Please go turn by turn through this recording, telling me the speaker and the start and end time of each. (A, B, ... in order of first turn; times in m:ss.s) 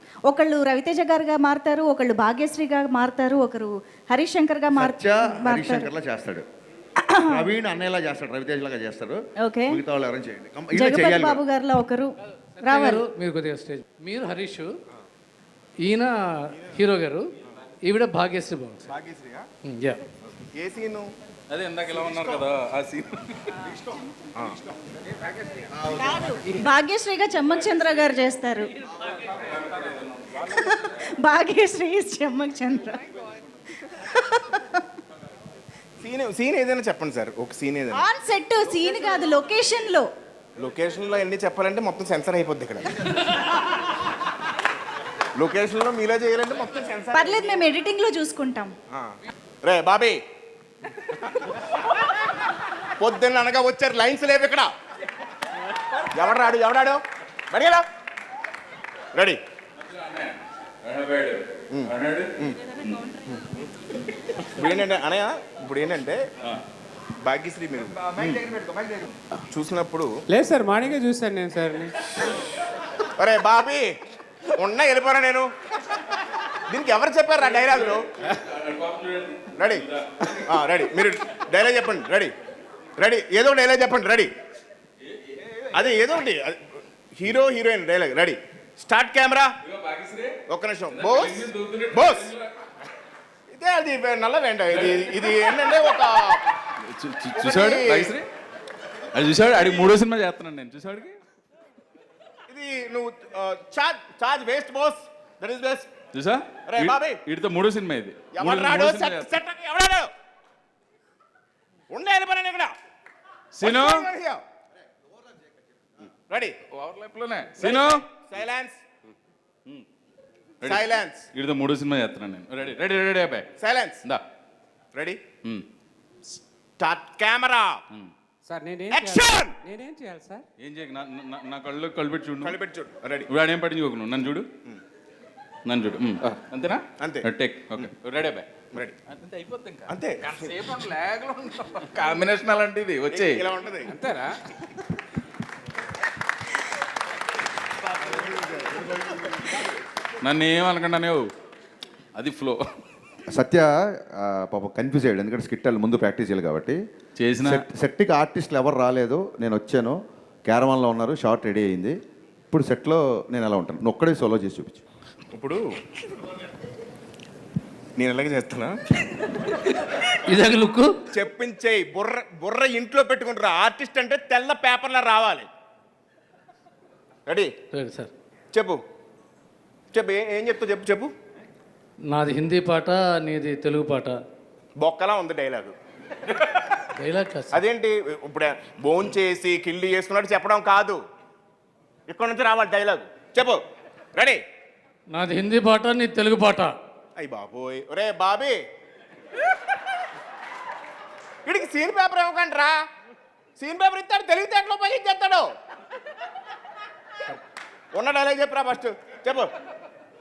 0:00.3-0:05.9 A
0:04.8-0:06.4 B
0:07.0-0:07.5 A
0:07.3-0:11.4 B
0:09.4-0:09.8 A
0:10.7-0:13.0 A
0:12.6-0:14.7 C
0:15.8-0:18.8 C
0:18.9-0:19.5 D
0:19.7-0:20.0 C
0:20.5-0:21.1 D
0:21.5-0:23.7 E
0:25.9-0:28.7 A
0:29.5-0:29.9 E
0:30.4-0:33.0 A
0:33.9-0:34.8 A
0:36.0-0:38.0 D
0:37.9-0:40.1 A
0:40.6-0:43.2 D
0:45.4-0:47.6 D
0:47.1-0:48.7 A
0:49.6-0:50.2 D
0:53.0-0:54.7 D
0:56.1-0:57.8 D
0:59.1-0:59.4 D
0:59.8-1:02.3 E
1:01.7-1:02.6 D
1:04.5-1:06.2 D
1:07.2-1:10.1 D
1:10.3-1:11.9 F
1:13.2-1:13.9 D
1:14.6-1:15.5 D
1:16.7-1:18.0 D
1:17.8-1:20.1 E
1:19.6-1:19.8 D
1:20.4-1:22.3 D
1:23.0-1:24.3 D
1:25.7-1:29.5 D
1:29.6-1:30.4 E
1:30.5-1:32.3 D
1:30.9-1:32.5 E
1:33.5-1:36.4 D
1:34.7-1:35.4 E
1:36.8-1:38.3 E
1:37.4-1:38.2 D
1:39.1-1:41.2 E
1:42.5-1:45.9 D
1:46.1-1:49.3 E
1:46.7-1:47.2 D
1:48.3-1:50.1 D
1:51.9-1:52.7 D
1:53.5-1:54.1 E
1:53.6-1:54.4 D
1:56.3-1:56.6 D
1:56.7-1:58.1 E
1:57.6-1:58.8 D
2:00.6-2:03.5 E
2:00.6-2:01.3 D
2:03.6-2:04.0 D
2:04.9-2:05.2 D
2:06.8-2:07.8 D
2:08.5-2:10.4 F
2:08.9-2:09.6 D
2:10.6-2:12.6 E
2:12.4-2:13.3 D
2:13.3-2:14.5 E
2:15.7-2:23.5 E
2:17.0-2:17.9 D
2:19.9-2:20.5 D
2:23.1-2:24.0 D
2:24.0-2:24.3 F
2:28.2-2:28.8 D
2:30.2-2:31.3 E
2:32.2-2:32.6 E
2:33.3-2:36.8 B
2:37.2-2:37.6 E
2:37.4-2:42.0 B
2:42.5-2:44.8 B
2:45.3-2:45.6 D
2:48.0-2:48.8 D
2:50.3-2:50.9 C
2:51.1-2:55.5 D
2:57.3-2:57.5 D
2:57.7-2:58.1 C
2:58.5-2:58.8 D
2:59.9-3:01.1 D
3:02.1-3:04.2 C
3:04.8-3:05.8 D
3:07.0-3:07.6 C
3:07.5-3:11.0 D
3:12.1-3:13.6 D
3:14.1-3:14.4 D
3:15.1-3:16.8 C
3:17.2-3:18.6 D
3:21.5-3:22.8 D
3:23.6-3:25.5 D
3:27.9-3:29.5 D